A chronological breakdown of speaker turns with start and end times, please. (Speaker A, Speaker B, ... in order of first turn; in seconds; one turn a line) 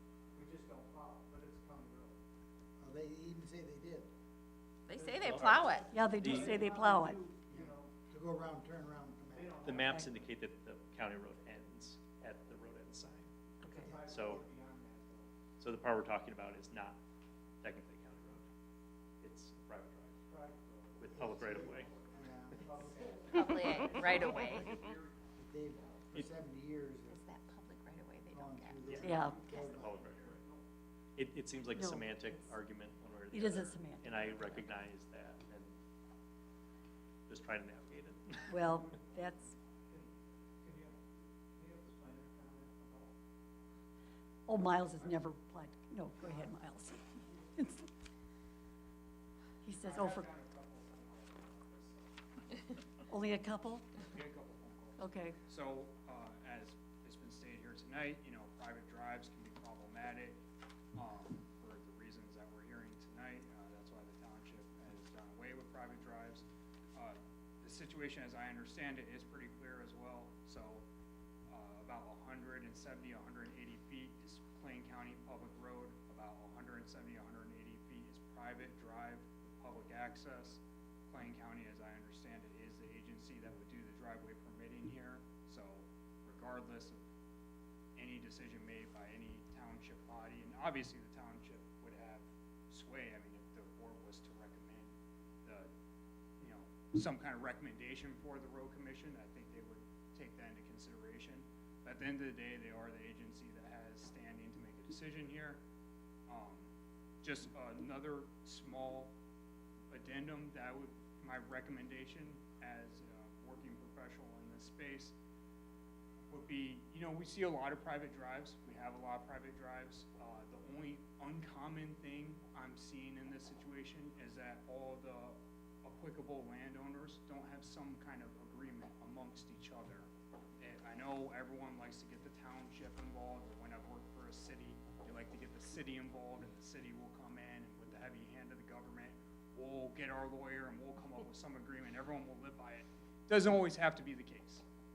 Speaker A: 0.3-2.2
Speaker B: 2.8-4.1
Speaker C: 4.9-6.3
Speaker A: 4.9-7.9
Speaker D: 5.3-5.6
Speaker E: 5.9-7.2
Speaker D: 6.2-6.5
Speaker B: 7.5-9.6
Speaker A: 9.3-10.2
Speaker D: 9.6-13.3
Speaker A: 13.8-15.3
Speaker D: 13.9-14.4
Speaker D: 15.6-17.0
Speaker D: 17.6-18.4
Speaker D: 19.2-20.2
Speaker A: 20.3-24.8
Speaker D: 21.0-21.9
Speaker B: 21.1-22.8
Speaker C: 23.3-24.9
Speaker F: 24.2-24.9
Speaker B: 25.4-27.2
Speaker C: 27.1-29.8
Speaker B: 28.3-30.1
Speaker D: 28.8-30.4
Speaker A: 29.0-30.6
Speaker E: 29.0-29.4
Speaker D: 31.2-35.8
Speaker E: 31.7-32.5
Speaker E: 33.3-34.7
Speaker D: 37.3-38.7
Speaker E: 38.5-39.5
Speaker A: 39.9-43.1
Speaker E: 44.5-47.9
Speaker E: 49.6-50.3
Speaker F: 49.8-52.1
Speaker E: 53.1-54.0
Speaker F: 54.0-60.4
Speaker E: 55.0-55.4
Speaker F: 60.9-70.8
Speaker F: 71.5-87.0
Speaker F: 88.0-94.9
Speaker F: 96.4-105.6
Speaker F: 106.3-106.7
Speaker F: 107.2-109.1
Speaker F: 109.9-115.1
Speaker F: 116.3-144.6